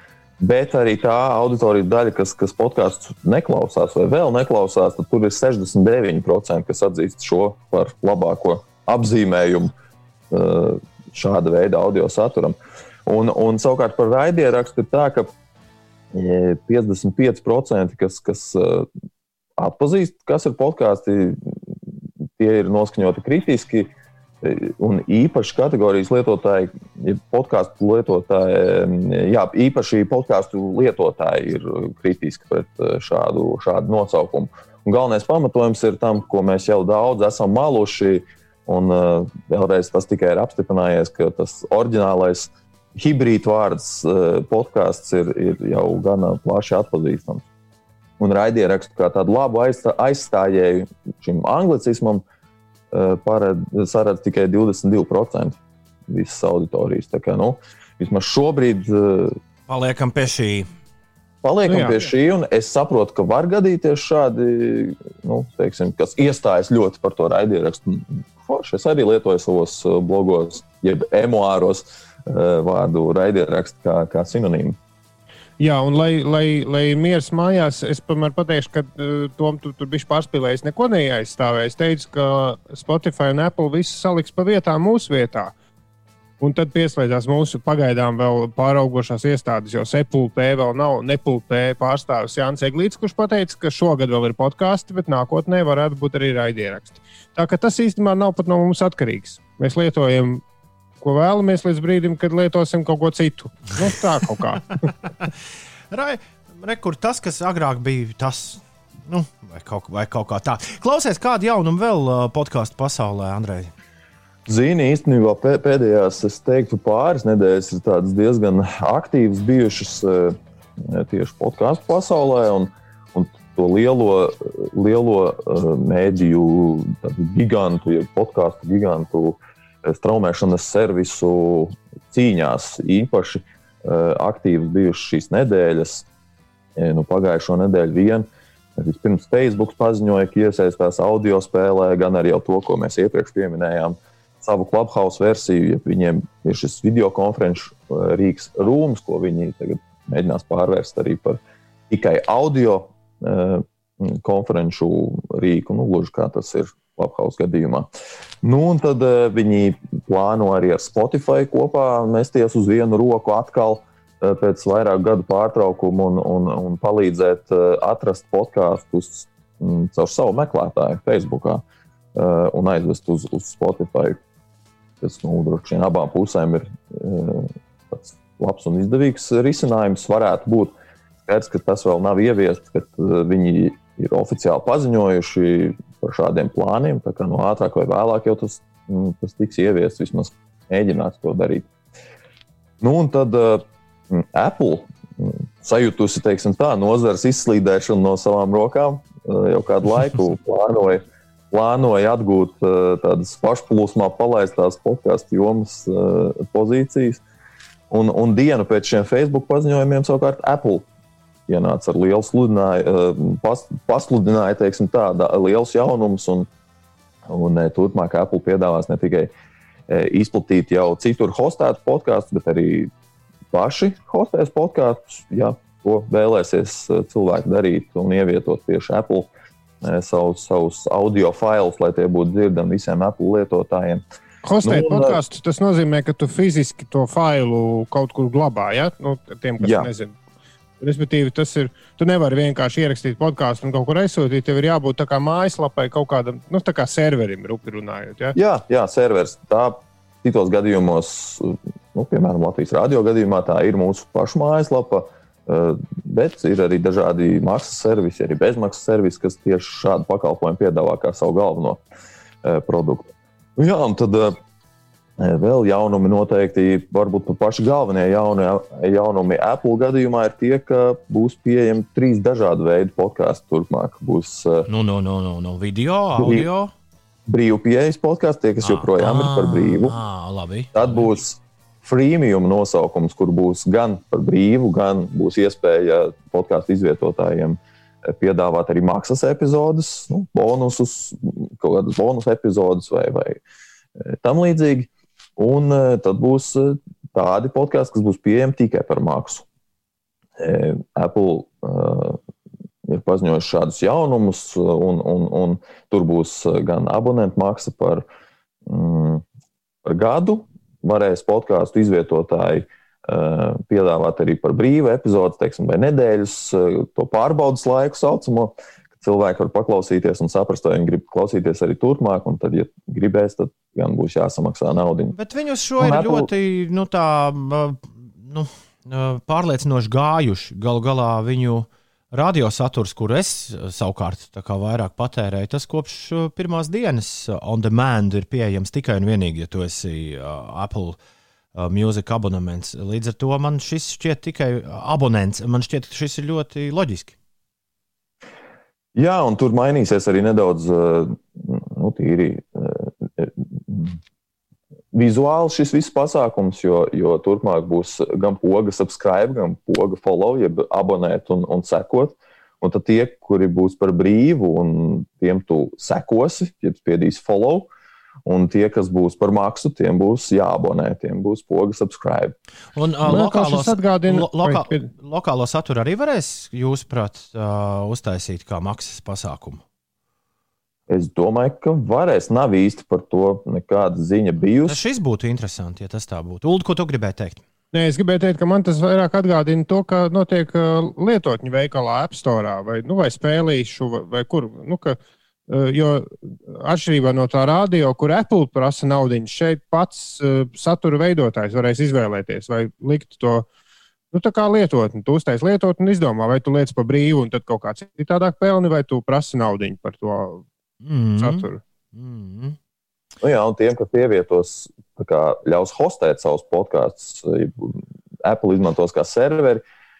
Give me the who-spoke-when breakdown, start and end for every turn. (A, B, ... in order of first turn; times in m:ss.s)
0:00.4-0:09.7 A
0:10.3-0:15.3 A
0:16.1-0:18.9 A
0:19.6-0:21.4 A
0:22.4-0:23.9 A
0:24.4-0:47.4 A
0:48.2-0:52.2 A
0:52.9-0:55.6 A
0:56.1-0:59.4 A
0:59.7-1:00.7 B
1:01.4-1:14.8 A
1:01.7-1:02.0 C
1:15.6-1:25.5 C
1:26.4-1:40.4 C
1:41.0-1:44.9 C
1:45.9-1:53.7 B
1:54.5-2:16.0 A
2:16.8-2:37.9 A
2:38.4-2:51.6 A
2:52.1-2:54.2 A
2:55.0-3:11.7 A
3:12.8-3:27.2 A
3:27.9-3:30.9 A
3:31.5-3:36.5 A
3:37.2-3:39.3 A
3:39.9-3:42.9 A
3:43.5-3:49.3 A
3:49.8-3:54.0 A
3:54.4-4:00.1 C
3:54.6-3:55.2 A
3:59.6-3:59.9 A
4:00.8-4:08.4 C
4:08.4-4:21.8 A
4:22.4-4:24.4 A
4:25.2-4:34.7 A
4:34.7-4:36.7 B
4:36.2-4:36.5 A
4:37.3-4:40.0 A
4:38.6-4:41.1 B
4:40.7-4:53.4 A
4:54.0-4:59.4 A
5:00.4-5:02.2 A
5:02.9-5:08.0 A
5:08.6-5:09.2 A
5:09.8-5:25.2 A
5:25.1-5:41.0 B
5:25.8-5:26.3 A
5:41.5-5:47.1 B
5:48.9-5:54.0 A
5:54.9-6:07.7 A
6:08.2-6:12.4 A
6:12.7-6:19.6 B
6:13.0-6:14.9 C
6:20.9-6:24.8 A
6:24.7-6:27.4 B
6:27.7-6:35.0 C
6:35.5-6:43.4 C
6:44.1-6:50.4 C
6:50.8-6:52.6 B
6:51.2-6:51.6 C
6:53.2-6:59.6 A